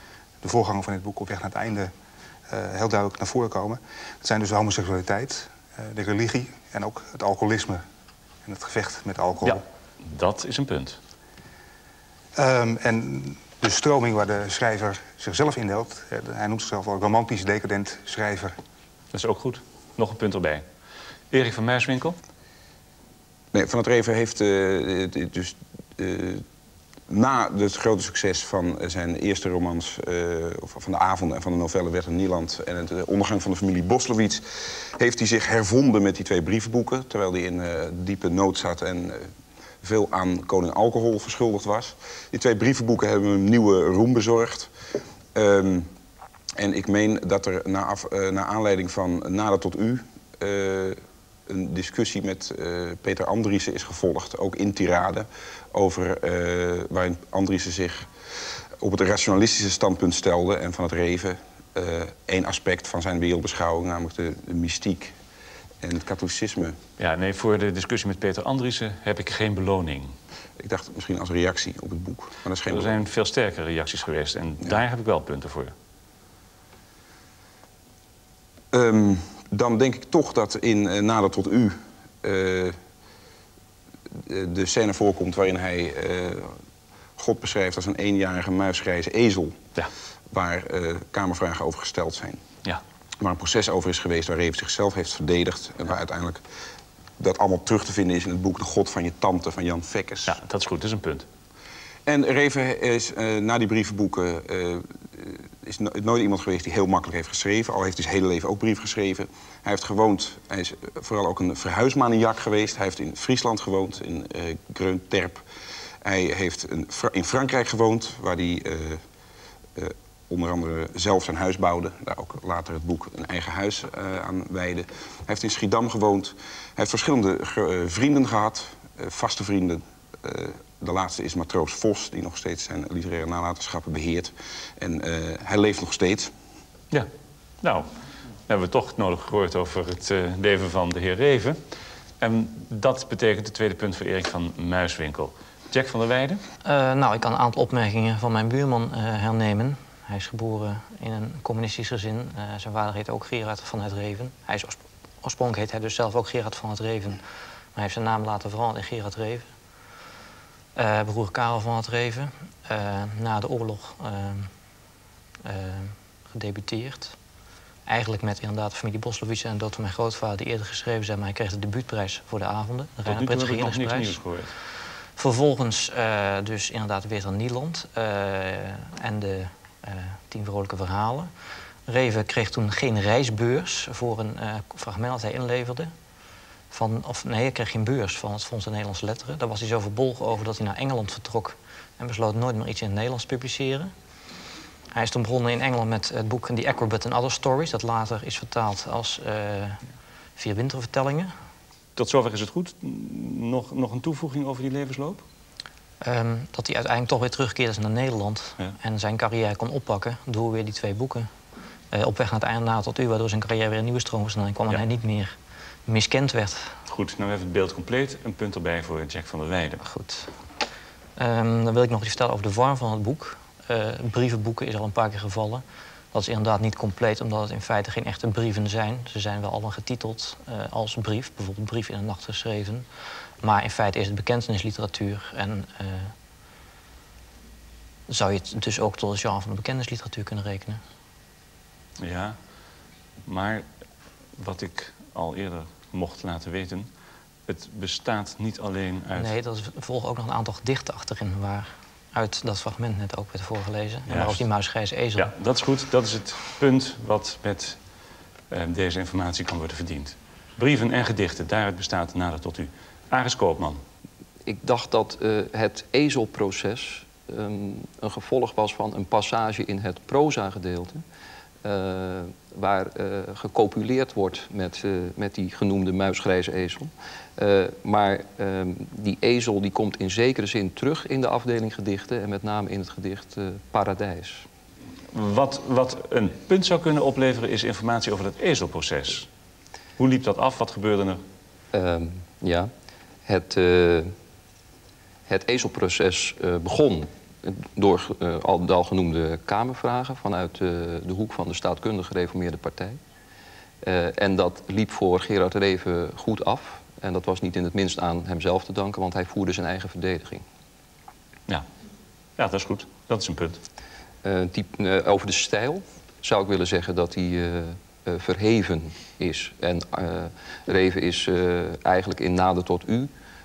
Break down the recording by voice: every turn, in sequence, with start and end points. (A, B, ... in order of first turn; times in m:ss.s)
0:00.4-0:01.9 A
0:02.5-0:07.8 A
0:08.4-0:09.6 A
0:09.4-0:11.0 B
0:12.4-0:18.6 A
0:19.1-0:20.6 B
0:21.3-0:22.2 B
0:23.5-0:26.4 C
0:27.1-0:39.3 C
0:39.8-0:44.7 C
0:45.3-0:45.9 C
0:46.6-0:58.1 C
0:58.8-1:05.2 C
1:05.8-1:06.8 C
1:07.0-1:10.1 B
1:10.6-1:13.0 C
1:12.7-1:15.7 B
1:18.7-1:22.8 C
1:24.1-1:26.6 C
1:27.2-1:29.6 C
1:30.3-1:32.4 C
1:33.2-1:36.4 C
1:37.2-1:40.4 C
1:40.3-1:41.3 B
1:42.1-1:55.4 C
1:56.0-1:59.0 C
1:59.8-2:16.3 C
2:17.6-2:17.9 B
2:18.5-2:21.6 B
2:22.2-2:26.4 B
2:26.6-2:37.2 D
2:37.8-2:39.5 D
2:40.8-2:44.5 D
2:45.4-2:47.2 D
2:47.9-2:54.2 D
2:53.1-2:54.6 B
2:55.2-3:01.3 D
3:01.9-3:05.9 D
3:06.7-3:13.9 D
3:14.9-3:19.8 D
3:20.4-3:21.3 D
3:22.0-3:25.2 B
3:26.0-3:31.3 D
3:31.9-3:35.4 D
3:35.9-3:36.8 D
3:36.9-3:39.8 B
3:39.8-3:40.4 D
3:41.2-3:52.9 D
3:53.4-3:56.1 D
3:58.1-4:00.8 D
4:02.0-4:02.4 B
4:03.3-4:03.7 B
4:04.4-4:06.9 B
4:07.5-4:09.3 B
4:09.2-4:15.3 D
4:14.1-4:14.5 B
4:15.2-4:17.8 B
4:18.5-4:23.8 B
4:24.5-4:31.0 E
4:31.6-4:44.5 E
4:45.1-4:49.3 B
4:50.0-4:51.2 B
4:51.7-4:52.7 E
4:53.3-4:54.1 E
4:55.3-5:03.0 E
5:03.8-5:10.4 E
5:12.4-5:13.6 B
5:14.2-5:23.1 E